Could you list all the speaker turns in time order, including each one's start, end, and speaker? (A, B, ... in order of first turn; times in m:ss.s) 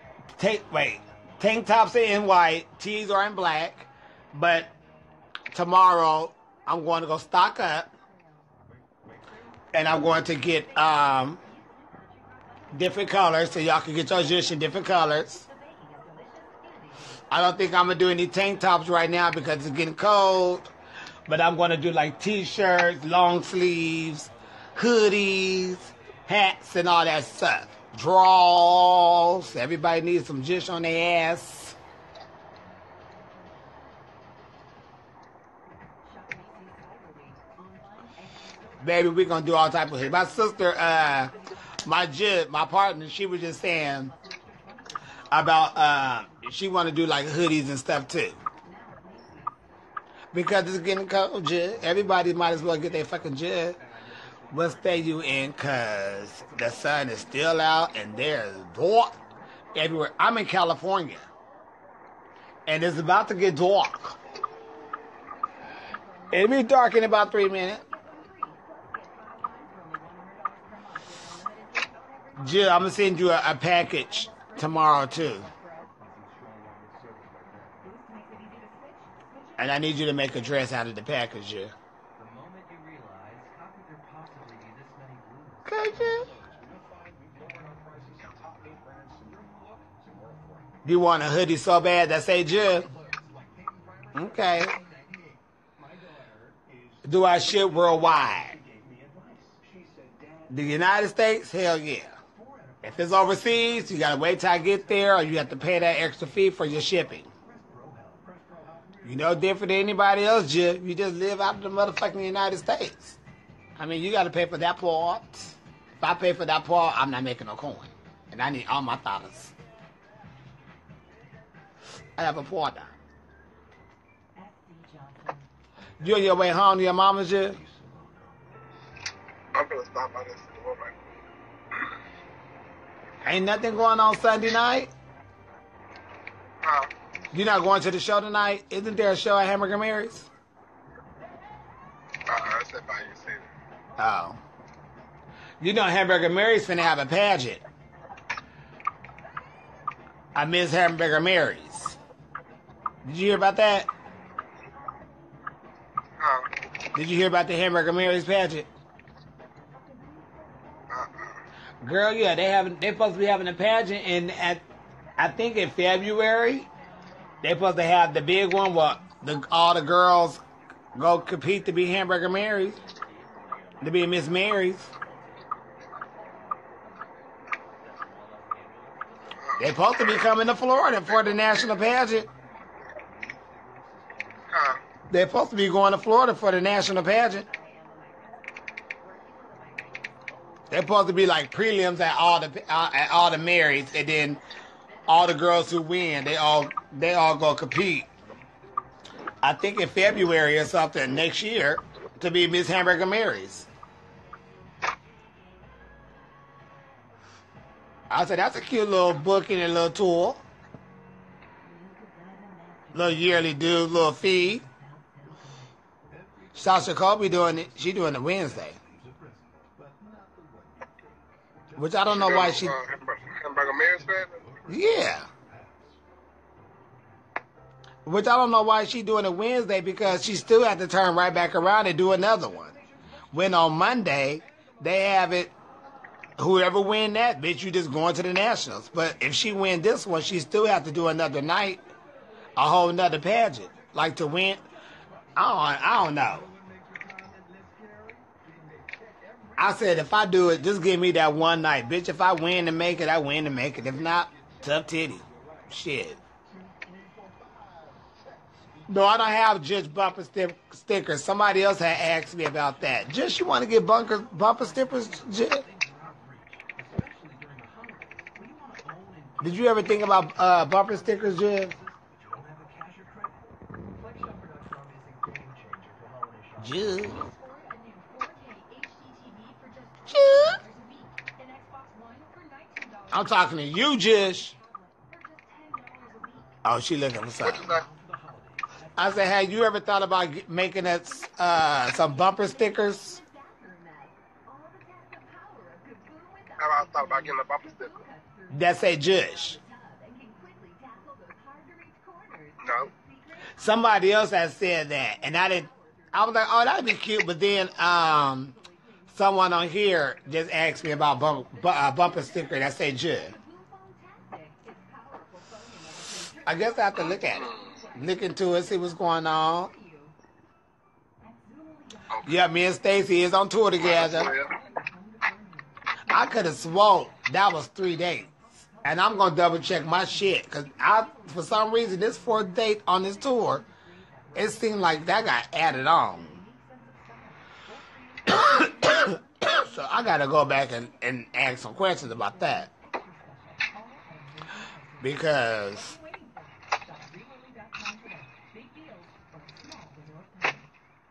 0:00.4-0:04.7 A
0:05.5-0:07.9 A
0:09.7-0:11.4 A
0:11.4-0:12.6 B
0:12.7-0:15.4 A
0:15.5-0:17.1 B
0:17.3-0:20.7 A
0:21.3-0:31.8 A
0:36.0-0:38.5 B
0:38.8-0:44.1 A
0:44.4-0:44.9 B
0:45.3-0:48.4 A
0:48.7-0:49.5 B
0:50.3-0:53.8 A
0:54.5-0:59.2 A
0:59.7-1:01.3 A
1:02.7-1:04.2 A
1:05.7-1:06.6 B
1:06.3-1:07.8 A
1:07.8-1:12.7 B
1:12.4-1:15.5 A
1:15.4-1:16.5 B
1:17.6-1:19.6 B
1:19.6-1:21.7 A
1:22.4-1:23.8 B
1:24.4-1:24.8 B
1:25.6-1:26.3 A
1:29.1-1:30.0 B
1:30.8-1:32.9 A
1:34.1-1:34.8 A
1:37.0-1:38.6 A
1:40.5-1:42.2 A
1:42.8-1:47.3 A
1:49.0-1:53.2 A
1:53.8-1:59.5 A
2:02.2-2:03.0 A
2:04.4-2:05.5 B
2:06.0-2:07.6 A
2:09.5-2:11.0 C
2:13.2-2:14.9 A
2:16.6-2:16.9 C
2:17.3-2:20.3 A
2:22.2-2:23.5 C
2:24.0-2:24.4 A
2:25.6-2:27.6 A
2:30.4-2:32.0 A
2:33.0-2:33.9 A
2:36.2-2:36.5 C
2:36.9-2:38.7 A
2:40.9-2:41.4 C
2:41.8-2:44.6 A
2:45.2-2:46.7 A
2:47.4-2:50.4 A
2:51.0-2:52.8 A
2:53.8-2:54.9 A
2:59.4-3:00.2 C
2:59.6-3:02.3 A
3:04.5-3:04.8 C
3:05.1-3:07.5 A
3:07.5-3:10.3 B
3:10.7-3:14.4 A
3:15.1-3:18.1 A
3:19.4-3:23.7 A
3:28.1-3:30.4 A
3:31.7-3:33.0 B
3:32.9-3:34.6 A
3:36.6-3:38.8 A
3:41.8-3:42.8 A
3:42.1-3:44.6 C
3:44.7-3:45.3 A
3:48.1-3:52.8 A
3:53.3-3:55.5 A
3:56.4-4:01.9 A
4:02.6-4:04.6 A
4:05.4-4:06.5 A
4:09.6-4:16.2 A
4:18.9-4:25.7 A
4:27.0-4:27.6 B
4:29.4-4:31.8 A
4:36.6-4:37.2 A
4:37.0-4:46.6 B
4:40.1-4:40.6 A
4:43.1-4:44.6 A
4:46.6-4:47.8 A
4:47.4-4:47.9 C
4:49.0-4:53.2 A
4:52.8-4:57.1 B
4:56.6-4:58.0 C
4:57.8-4:58.5 B
4:58.5-4:59.6 A
4:59.2-5:03.4 B
5:02.6-5:02.9 C
5:03.6-5:08.6 A
5:09.1-5:13.3 A
5:13.3-5:17.8 B
5:16.4-5:19.7 A
5:17.2-5:17.7 C
5:21.2-5:22.2 B
5:22.2-5:24.3 A
5:23.8-5:24.5 C
5:24.3-5:25.7 B
5:26.1-5:33.6 A
5:34.4-5:36.4 A
5:36.6-5:37.3 B
5:38.3-5:42.7 A
5:43.0-5:44.0 B
5:45.0-5:46.0 A
5:46.0-5:50.6 B